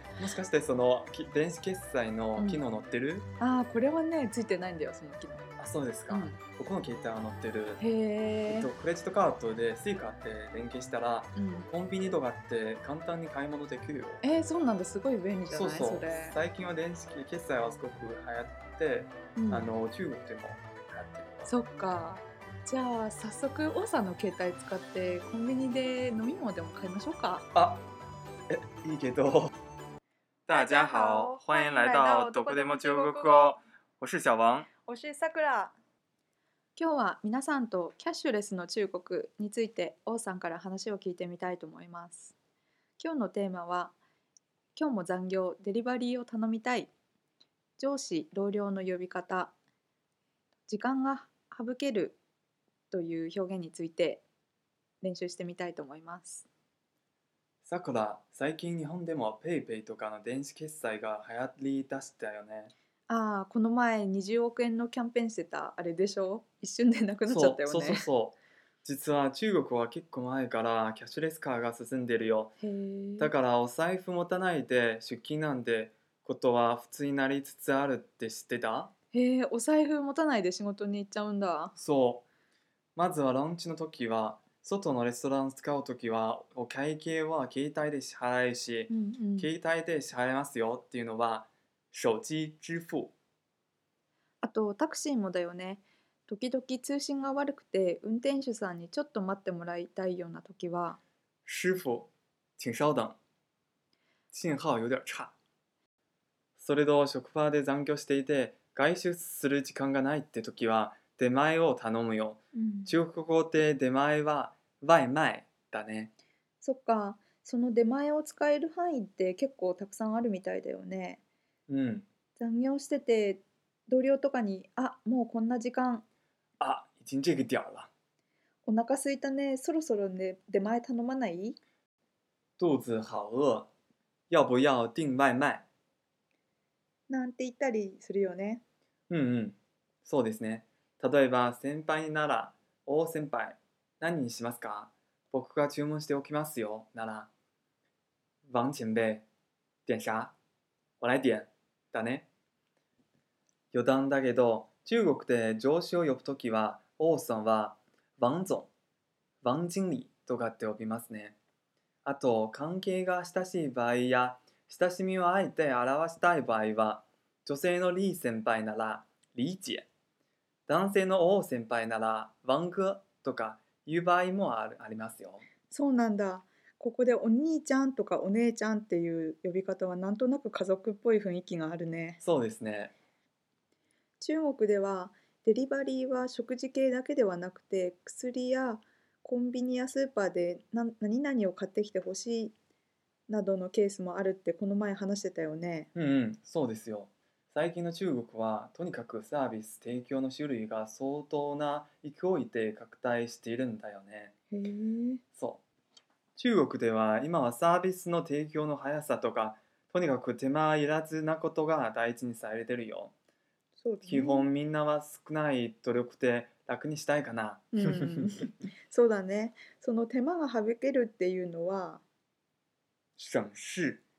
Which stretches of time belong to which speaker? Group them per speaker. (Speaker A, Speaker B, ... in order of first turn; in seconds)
Speaker A: 0.2-3.3, 5.6-7.8, 8.5-14.2, 15.5-21.5, 27.5-27.8, 28.5-29.5, 30.5-34.7, 57.6-62.7, 67.3-72.6, 73.2-78.9, 81.8-82.2, 83.0-93.1, 101.5-103.2, 104.3-105.3, 106.6-116.1, 121.7-122.1, 126.6-127.9, 132.6-133.7, 134.3-135.7, 139.1-147.3, 148.5-149.3, 149.9-150.3, 151.0-152.3, 153.7-158.7, 159.4-161.4, 162.1-169.9, 170.7-175.5, 182.2-182.9, 195.9-204.3, 205.4-205.6, 206.4-213.1, 214.1-218.3, 223.2-224.0
Speaker B: 2.4-2.6, 3.4-5.5, 6.1-6.4, 7.8-8.7, 11.4-11.7, 14.2-16.4, 19.4-19.7, 21.5-27.5, 30.5-33.6, 34.8-35.8, 36.8-42.4, 43.0-44.0, 44.8-46.9, 47.8-49.5, 50.7-52.2, 52.9-54.2, 55.0-56.5, 63.1-68.1, 72.6-73.3, 79.1-81.7, 88.9-89.5, 94.4-101.0, 112.5-112.9, 116.6-121.2, 122.4-126.0, 128.7-131.6, 137.1-138.6, 175.7-182.2, 184.2-192.6, 193.3-195.9, 204.5-205.2, 213.8-214.5, 217.8-222.0